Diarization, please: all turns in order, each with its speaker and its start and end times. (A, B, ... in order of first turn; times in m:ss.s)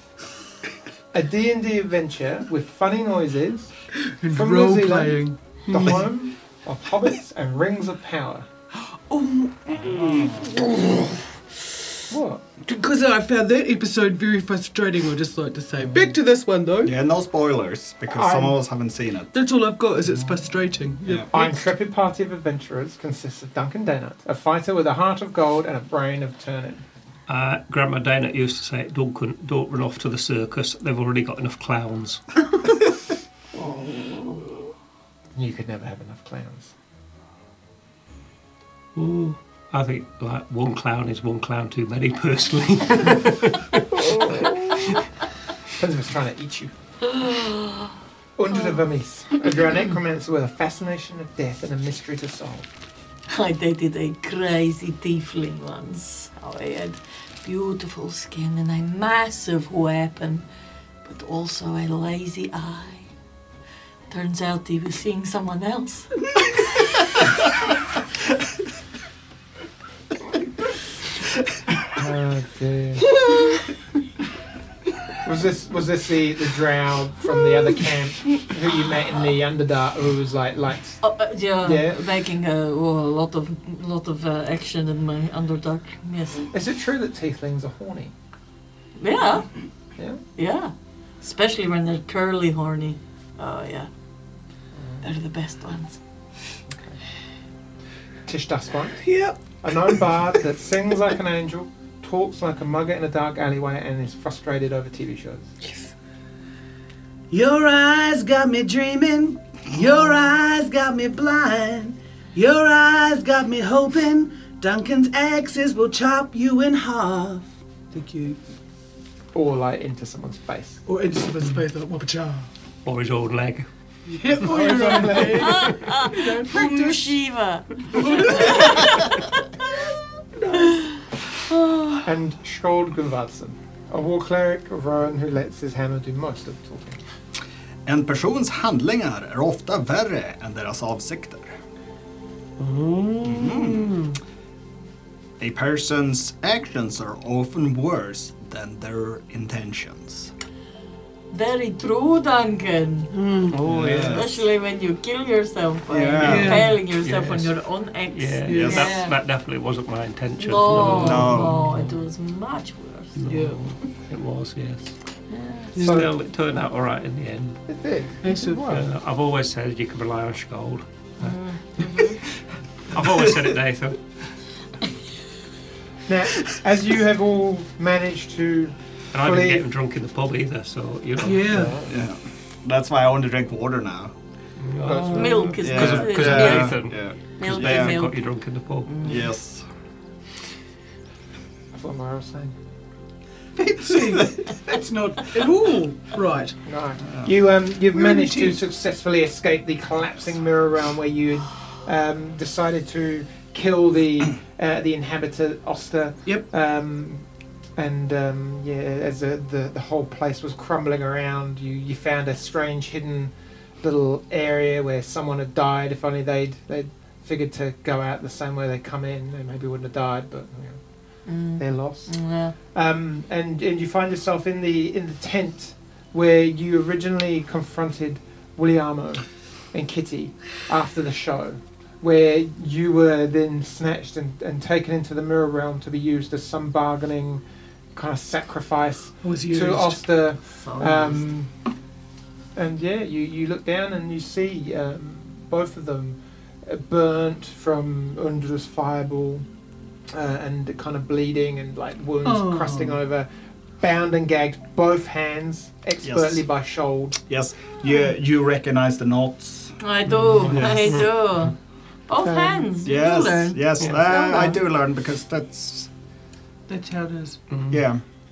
0:01.1-0:03.7 A
0:04.2-0:06.1 B
0:04.3-0:08.5 A
0:08.8-0:11.3 B
0:10.0-0:10.4 C
0:12.1-0:12.4 A
0:12.6-0:17.0 B
0:16.8-0:19.3 C
0:18.1-0:18.6 A
0:19.3-0:21.6 B
0:21.3-0:26.8 A
0:27.3-0:32.2 D
0:33.9-0:34.4 E
0:35.3-0:36.7 A
0:38.9-0:43.9 D
0:44.0-0:44.9 A
0:45.7-0:46.7 A
0:47.1-0:47.9 E
0:48.4-0:52.7 A
0:53.3-1:00.4 E
1:01.0-1:03.1 E
1:04.1-1:06.8 E
1:11.9-1:13.2 A
1:15.2-1:21.0 A
1:21.0-1:26.5 E
1:21.6-1:22.0 A
1:26.5-1:28.1 A
1:29.0-1:29.5 E
1:30.4-1:33.9 E
1:34.7-1:35.0 A
1:35.0-1:36.0 E
1:36.7-1:37.0 A
1:38.2-1:45.5 A
1:39.0-1:39.4 B
1:47.3-1:58.4 B
1:59.3-2:00.8 A
2:00.8-2:02.5 B
2:02.8-2:03.7 D
2:04.1-2:07.1 B
2:04.4-2:05.9 A
2:05.4-2:09.4 E
2:08.0-2:08.9 B
2:10.3-2:10.8 B
2:11.5-2:12.0 E
2:12.0-2:17.0 A
2:17.8-2:21.5 C
2:22.6-2:24.1 B
2:23.2-2:23.9 C
2:25.4-2:30.3 C
2:31.3-2:33.2 E
2:33.1-2:33.6 B
2:33.5-2:34.2 D
2:33.7-2:34.4 C
2:34.1-2:39.1 E
2:35.9-2:36.7 C
2:36.2-2:36.7 B
2:36.3-2:42.0 D
2:38.4-2:38.8 B
2:38.5-2:38.9 C
2:40.4-2:43.2 E
2:40.9-2:41.5 C
2:43.2-2:45.0 D
2:43.3-2:43.6 B
2:45.3-2:45.7 E
2:45.7-2:47.6 D
2:45.7-2:46.0 B
2:45.8-2:46.1 A
2:47.7-2:48.9 A
2:48.2-2:48.6 B
2:48.7-2:51.3 D
2:51.2-2:52.2 E
2:52.9-2:54.1 D
2:56.1-2:59.6 A
2:59.1-3:01.5 D
3:01.2-3:01.8 B
3:01.5-3:01.9 A
3:01.8-3:04.1 C
3:04.6-3:08.9 D
3:04.8-3:05.6 A
3:05.1-3:08.2 E
3:05.6-3:08.0 C
3:08.8-3:09.3 E
3:09.0-3:09.6 C
3:11.7-3:12.6 A
3:13.6-3:16.6 B
3:14.0-3:14.2 C
3:16.6-3:40.8 A
3:17.0-3:17.3 C
3:17.9-3:18.6 B
3:41.2-3:42.5 E
3:41.6-3:57.4 A
3:57.9-4:01.5 A
3:59.2-4:00.0 B
4:00.6-4:01.2 E
4:02.5-4:09.5 A
4:10.1-4:13.3 A
4:12.2-4:13.0 B
4:13.8-4:17.2 A
4:16.0-4:16.4 C
4:17.2-4:19.8 C
4:19.8-4:21.6 E
4:20.1-4:21.1 D
4:20.5-4:20.9 C
4:22.1-4:24.6 E
4:22.2-4:22.7 A
4:22.8-4:25.9 C
4:26.7-4:27.4 B
4:27.5-4:27.8 D
4:27.7-4:28.0 C